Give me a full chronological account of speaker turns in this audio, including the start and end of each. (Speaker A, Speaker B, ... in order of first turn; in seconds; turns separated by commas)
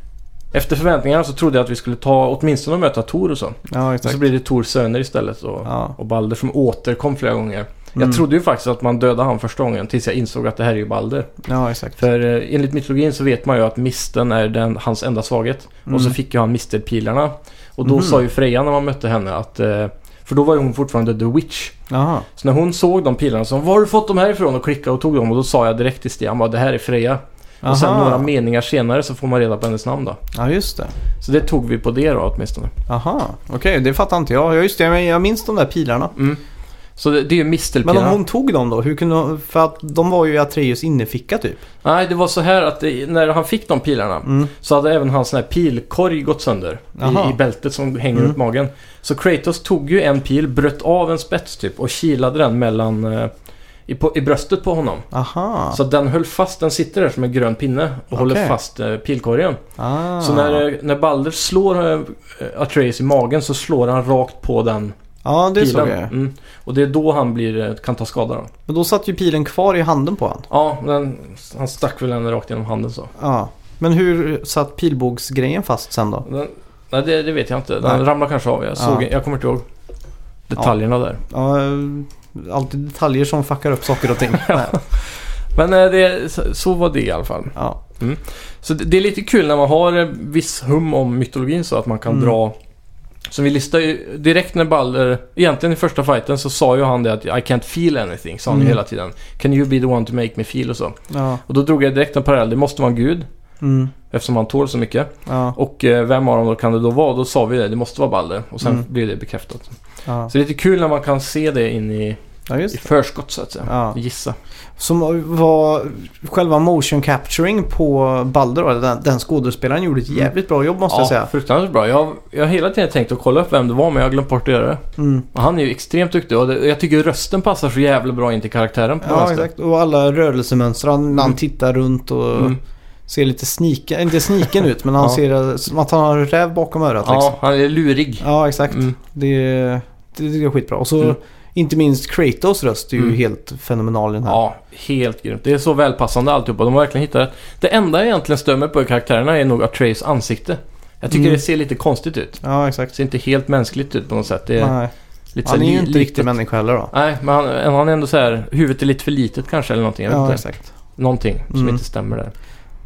Speaker A: 0.5-11.3, Speaker B: 3.7-4.2, Speaker B: 5.7-5.9, Speaker B: 8.0-8.2, Speaker B: 11.4-12.0, Speaker A: 12.0-21.7, Speaker B: 15.9-16.1, Speaker B: 17.8-18.2, Speaker B: 21.9-22.2, Speaker A: 22.4-30.2, Speaker B: 27.6-28.3, Speaker B: 30.3-30.9, Speaker A: 31.2-32.7, Speaker B: 32.9-36.1, Speaker A: 36.1-36.4, Speaker A: 37.0-38.2, Speaker B: 37.8-41.6, Speaker A: 41.8-53.3, Speaker B: 44.2-44.5, Speaker B: 47.0-47.4, Speaker A: 53.9-55.1, Speaker B: 55.1-55.8, Speaker A: 55.7-59.6, Speaker B: 58.1-58.5, Speaker B: 59.8-60.6, Speaker A: 60.2-64.9, Speaker B: 65.2-66.1, Speaker A: 65.6-68.5, Speaker B: 68.7-70.5, Speaker A: 70.5-73.1, Speaker B: 73.2-76.2, Speaker A: 76.2-79.6, Speaker B: 78.8-79.1, Speaker A: 80.5-81.2, Speaker B: 81.3-84.8, Speaker A: 84.3-92.5, Speaker B: 92.1-92.3, Speaker A: 93.3-103.2, Speaker B: 98.5-98.8, Speaker B: 101.1-101.4, Speaker B: 103.6-103.9, Speaker A: 104.1-112.2, Speaker B: 105.3-105.6, Speaker B: 110.0-110.3, Speaker B: 112.5-112.8, Speaker A: 112.7-114.3, Speaker B: 113.7-114.0, Speaker B: 114.8-121.3, Speaker A: 120.9-124.8, Speaker B: 125.0-125.2, Speaker A: 125.3-129.5, Speaker B: 129.0-137.3, Speaker A: 137.0-138.9, Speaker B: 138.2-144.4, Speaker A: 144.2-152.4, Speaker B: 151.1-151.4, Speaker B: 152.4-152.9, Speaker A: 152.9-154.8, Speaker B: 154.6-154.9, Speaker A: 155.3-156.3, Speaker B: 155.4-156.9, Speaker A: 156.9-160.4, Speaker B: 160.1-160.7, Speaker A: 160.9-162.3, Speaker B: 161.5-161.8